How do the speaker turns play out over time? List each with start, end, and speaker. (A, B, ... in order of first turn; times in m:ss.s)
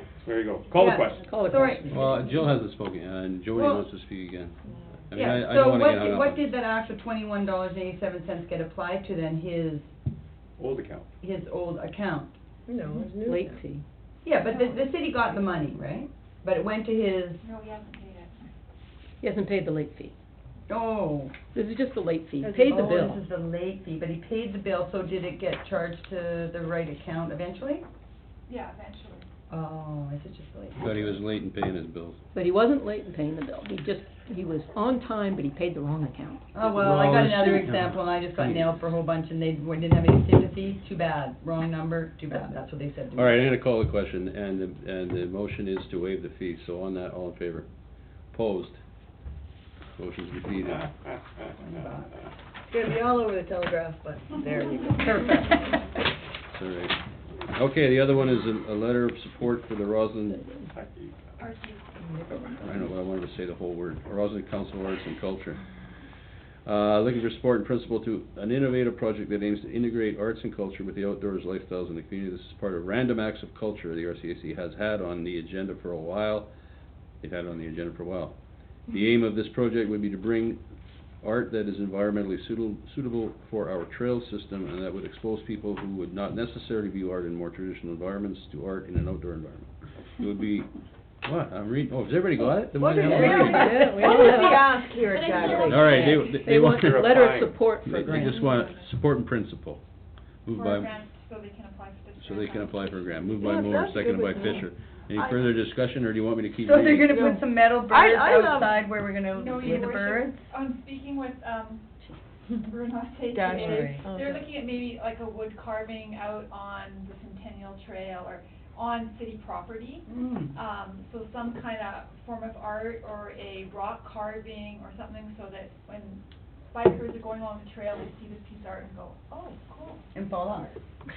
0:00.2-0:01.4 A
0:00.7-0:02.2 B
0:01.2-0:02.1 C
0:01.9-0:04.6 D
0:03.5-0:03.8 B
0:05.1-0:06.5 D
0:05.1-0:09.9 B
0:10.6-0:11.1 A
0:11.2-0:12.3 B
0:12.7-0:13.6 E
0:13.2-0:13.8 C
0:14.2-0:17.4 B
0:14.4-0:14.8 F
0:17.4-0:18.5 F
0:19.2-0:20.1 C
0:20.7-0:21.3 B
0:21.5-0:23.2 C
0:22.4-0:22.7 E
0:22.7-0:27.8 B
0:28.5-0:29.3 F
0:29.5-0:31.1 B
0:30.8-0:32.2 D
0:32.3-0:36.5 C
0:36.5-0:43.4 B
0:36.6-0:38.8 D
0:43.1-0:47.7 D
0:48.3-0:48.8 D
0:50.0-0:50.9 D
0:51.6-0:52.2 B
0:52.7-0:55.6 E
0:55.0-0:55.6 B
0:56.5-0:57.0 D
0:57.5-1:00.5 D
1:00.7-1:01.4 A
1:01.4-1:02.1 F
1:02.0-1:02.5 B
1:02.6-1:05.6 D
1:06.6-1:16.5 D
1:17.2-1:18.4 D
1:18.9-1:20.6 D
1:21.2-1:30.7 D
1:31.2-1:33.9 D
1:32.7-1:36.2 E
1:32.9-1:34.8 C
1:35.1-1:36.0 F
1:35.4-1:37.1 D
1:36.2-1:38.3 C
1:36.8-1:37.6 A
1:37.8-1:39.8 D
1:38.0-1:38.3 B
1:40.4-1:40.9 D
1:40.5-1:43.5 F
1:42.2-1:47.2 D
1:43.4-1:44.6 E
1:46.6-1:50.4 B
1:47.1-1:48.9 E
1:49.3-1:51.8 F
1:52.6-2:10.2 F
1:53.3-1:54.4 E
1:53.6-1:54.0 B
2:00.1-2:00.6 B
2:10.1-2:10.8 B